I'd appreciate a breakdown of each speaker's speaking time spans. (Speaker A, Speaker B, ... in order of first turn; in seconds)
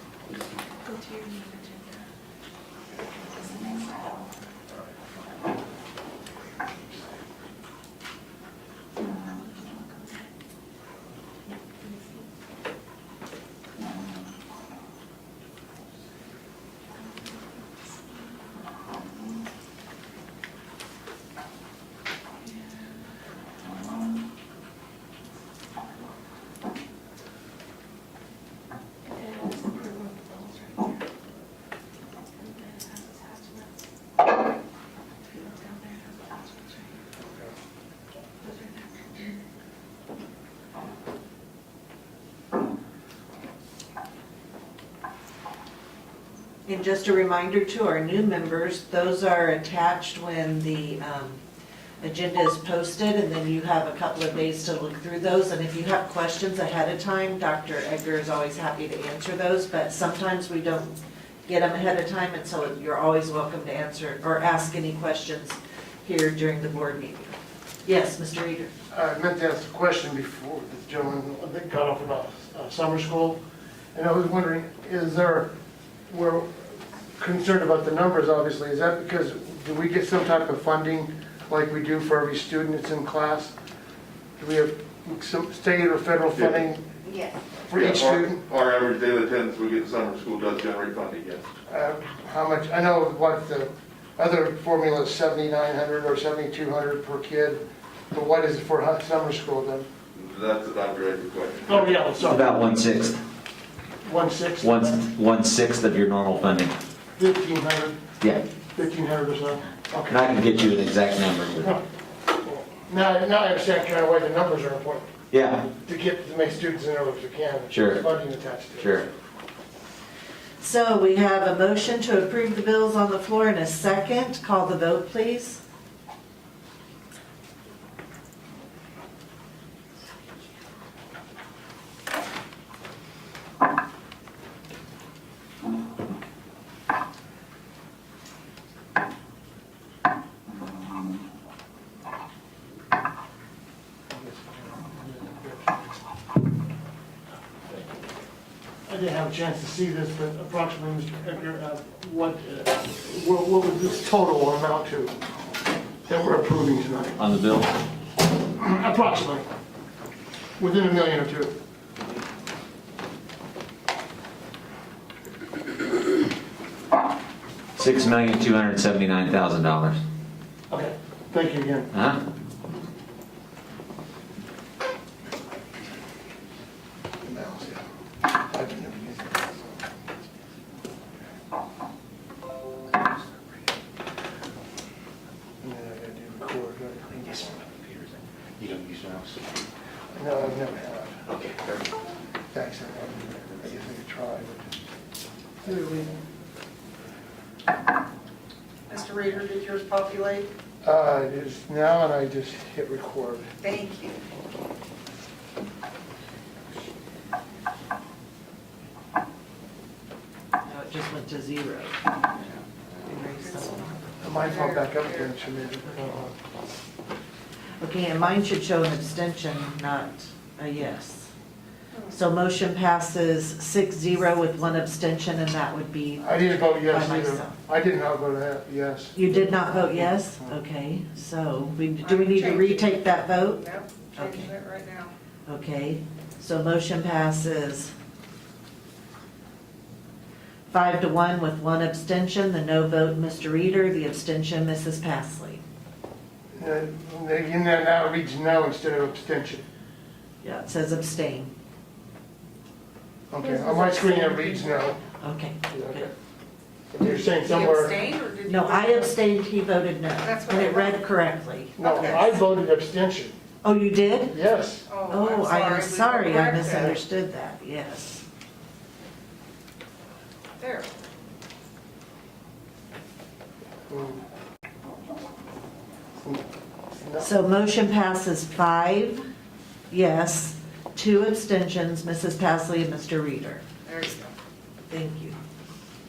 Speaker A: 0.8-2.0, 29.1-31.0, 32.4-33.7, 35.3-36.9, 38.4-39.1
Speaker B: 46.7-51.4, 52.0-68.7, 120.6-125.6, 210.6-212.1, 213.1-214.0, 215.9-216.2, 217.8-221.3, 222.1-227.6, 229.1-233.6, 234.1-234.5, 235.5-237.9, 240.7-245.6, 250.4-251.5, 255.2-256.1, 258.5-261.8, 263.6-264.4, 265.1-268.2, 277.2-279.2, 279.9-283.6, 284.9-285.4
Speaker C: 68.9-73.4, 73.9-75.5, 76.1-76.7, 77.2-83.5, 84.4-86.9, 87.7-88.4, 91.7-99.9, 101.7-102.6, 104.0-105.0, 107.2-108.0, 108.8-110.4, 111.6-111.8, 112.4-115.1, 115.8-119.1, 144.1-145.8, 147.6-148.1, 148.9-155.2, 156.1-157.2, 158.5-159.4, 160.6-161.5, 170.7-171.9, 177.2-177.9, 178.4-179.8, 185.6-187.6, 190.1-191.2, 192.5-194.7, 195.6-196.2, 200.8-203.5, 214.2-216.3, 226.2-230.6, 246.6-249.6, 253.3-255.0, 255.7-256.1, 256.9-258.0, 261.8-263.4, 264.3-264.9, 273.9-274.2, 276.2-277.3
Speaker D: 86.3-86.7, 87.7-91.5, 100.1-102.0
Speaker E: 102.2-103.2, 104.6-106.8, 108.2-108.4, 110.1-111.7, 115.3-115.7, 117.7-118.0, 118.8-119.0, 157.2-157.7, 167.8-170.0, 171.9-172.2
Speaker F: 187.2-189.4, 191.3-191.6
Speaker G: 198.9-200.5, 203.6-204.2, 212.4-215.3, 232.0-235.1, 253.4-255.0, 257.1-259.2, 260.2-261.1, 261.8-262.4, 264.9-267.0, 270.6-270.9, 283.9-284.3